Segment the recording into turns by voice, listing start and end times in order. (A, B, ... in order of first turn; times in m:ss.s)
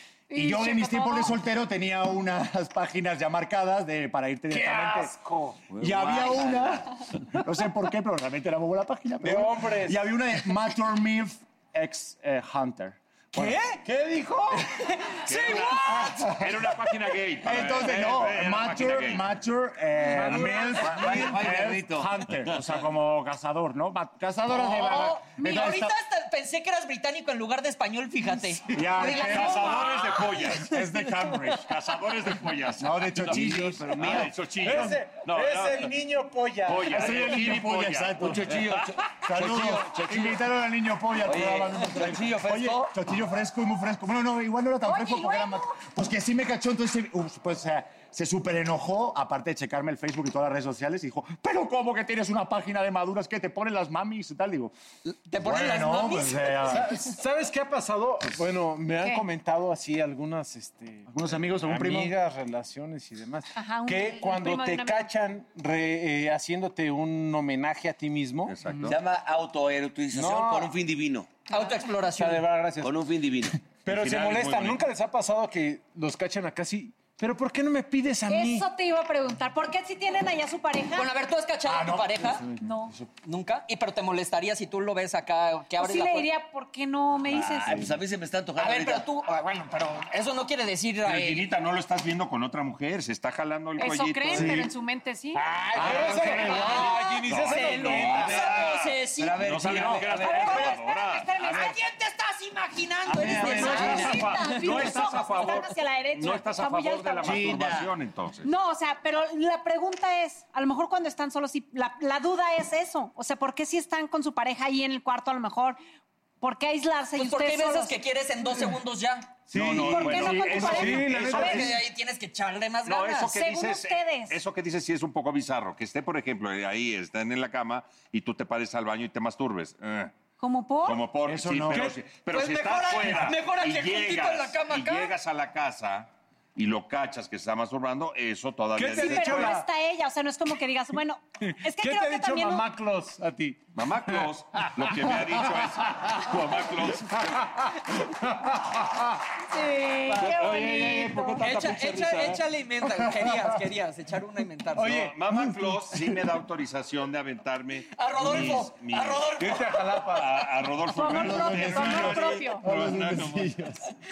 0:00.3-0:01.4 A
0:00.3-0:05.1 B
0:04.5-0:05.6 C
0:05.7-0:06.9 D
0:05.8-0:13.6 B
0:09.2-0:10.0 C
0:13.3-0:14.9 C
0:15.3-0:19.3 E
0:15.3-0:16.0 F
0:16.0-0:16.5 B
0:17.4-0:25.9 B
0:20.0-0:21.3 C
0:20.8-0:22.1 D
0:24.5-0:30.0 F
0:28.7-0:31.7 B
0:29.0-0:30.8 E
0:31.4-0:36.0 E
0:32.8-0:34.3 B
0:33.2-0:34.3 D
0:34.5-0:37.2 C
0:36.6-0:38.8 E
0:36.9-0:38.5 B
0:38.2-0:40.4 D
0:39.2-0:54.7 B
0:41.2-0:42.9 D
0:44.8-0:45.8 A
0:55.0-0:56.6 F
0:55.4-0:56.9 B
0:56.6-1:08.6 C
1:01.1-1:02.2 B
1:03.5-1:05.1 A
1:08.4-1:09.0 E
1:08.8-1:11.3 D
1:10.1-1:10.7 C
1:11.5-1:12.4 F
1:12.0-1:13.0 C
1:12.8-1:13.6 D
1:13.8-1:18.6 C
1:13.8-1:14.8 E
1:18.3-1:21.1 A
1:21.0-1:22.4 F
1:21.6-1:23.1 B
1:22.6-1:22.9 A
1:23.2-1:26.3 F
1:25.8-1:27.9 A
1:27.3-1:29.1 D
1:28.6-1:31.5 F
1:31.0-1:34.7 E
1:33.8-1:35.4 A
1:34.3-1:34.7 B
1:35.3-1:38.4 C
1:35.8-1:36.8 B
1:35.8-1:36.9 D
1:35.8-1:36.4 E
1:36.3-1:39.4 F
1:37.3-1:38.8 E
1:37.8-1:40.8 D
1:39.4-1:41.6 E
1:40.2-1:41.8 A
1:40.5-1:40.8 F
1:41.4-1:45.5 F
1:43.1-1:44.4 D
1:43.2-1:44.0 B
1:43.2-1:48.5 E
1:43.4-1:47.6 A
1:47.2-1:47.9 D
1:48.4-1:55.8 A
1:56.4-1:58.0 A
1:57.2-1:59.4 F
1:59.5-2:01.8 C
1:59.5-2:01.7 E
1:59.8-2:01.7 A
2:01.2-2:03.4 F
2:02.8-2:10.1 E
2:03.2-2:04.4 A
2:10.4-2:11.0 A
2:10.8-2:19.6 E
2:11.2-2:12.0 B
2:11.7-2:12.0 C
2:12.3-2:15.1 F
2:18.8-2:19.7 C
2:18.9-2:22.7 A
2:21.4-2:29.2 C
2:23.8-2:27.5 E
2:29.5-2:31.4 A
2:30.4-2:32.3 E
2:30.6-2:32.2 C
2:31.4-2:35.0 F
2:34.7-2:35.8 C
2:34.8-2:39.3 E
2:37.9-2:39.8 F
2:38.3-2:38.6 C
2:39.4-2:40.5 C
2:40.1-2:43.5 E
2:40.9-2:42.6 A
2:41.0-2:43.8 B